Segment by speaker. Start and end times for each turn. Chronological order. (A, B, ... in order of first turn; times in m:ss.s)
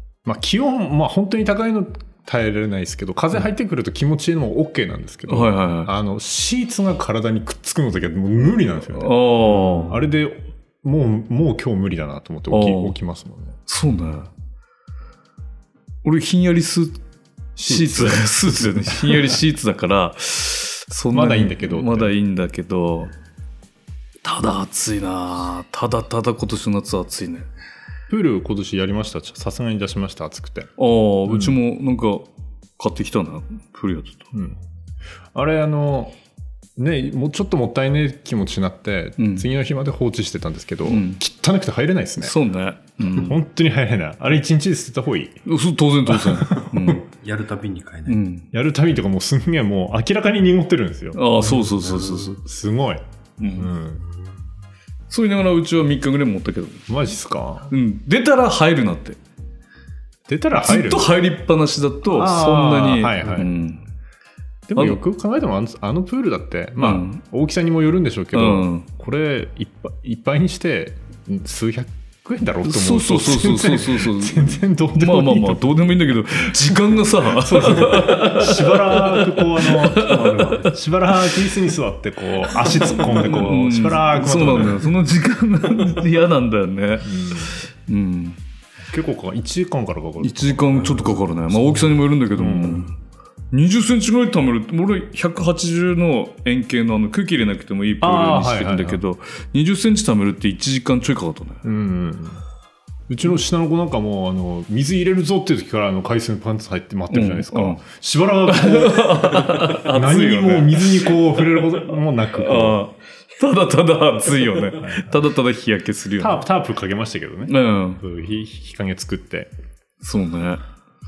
0:00.2-0:13.6 A
0:05.3-0:05.9 B
0:08.9-0:10.0 B
0:09.6-0:09.9 C
0:12.5-0:13.0 B
0:13.7-0:14.3 B
0:16.0-0:17.0 B
0:17.6-0:19.2 A
0:17.6-0:23.1 B
0:21.1-0:22.1 A
0:24.2-0:27.5 B
0:28.1-0:30.7 A
0:30.8-0:32.3 B
0:31.3-0:31.6 A
0:32.8-0:34.3 B
0:34.3-0:34.6 A
0:35.3-0:36.1 A
0:36.8-0:42.4 A
0:39.2-0:39.5 B
0:40.8-0:41.2 B
0:42.2-0:43.4 B
0:43.0-0:45.4 A
0:45.4-0:47.1 B
0:46.1-0:46.9 A
0:47.1-0:48.2 C
0:48.1-0:48.5 B
0:48.5-0:51.2 A
0:51.1-0:52.4 B
0:51.4-0:52.4 C
0:52.4-0:54.0 A
0:53.4-0:53.7 B
0:54.0-0:54.4 C
0:55.1-0:56.8 B
0:56.9-0:57.7 A
0:57.7-0:59.2 B
1:00.3-1:01.1 A
1:00.5-1:03.8 B
1:02.0-1:03.6 A
1:04.7-1:24.9 A
1:06.8-1:07.2 B
1:08.3-1:08.9 B
1:12.6-1:20.6 B
1:22.8-1:28.4 B
1:27.0-1:27.6 A
1:28.8-1:30.9 A
1:30.2-1:32.9 B
1:30.8-1:31.2 C
1:31.5-1:32.9 A
1:33.5-1:41.6 B
1:38.0-1:39.0 A
1:41.6-1:42.4 A
1:43.1-1:52.8 A
1:47.1-1:47.8 B
1:48.5-1:51.6 B
1:52.4-1:56.4 B
1:54.8-1:55.2 A
1:56.2-1:59.5 A
1:57.5-1:58.0 B
2:00.0-2:00.6 B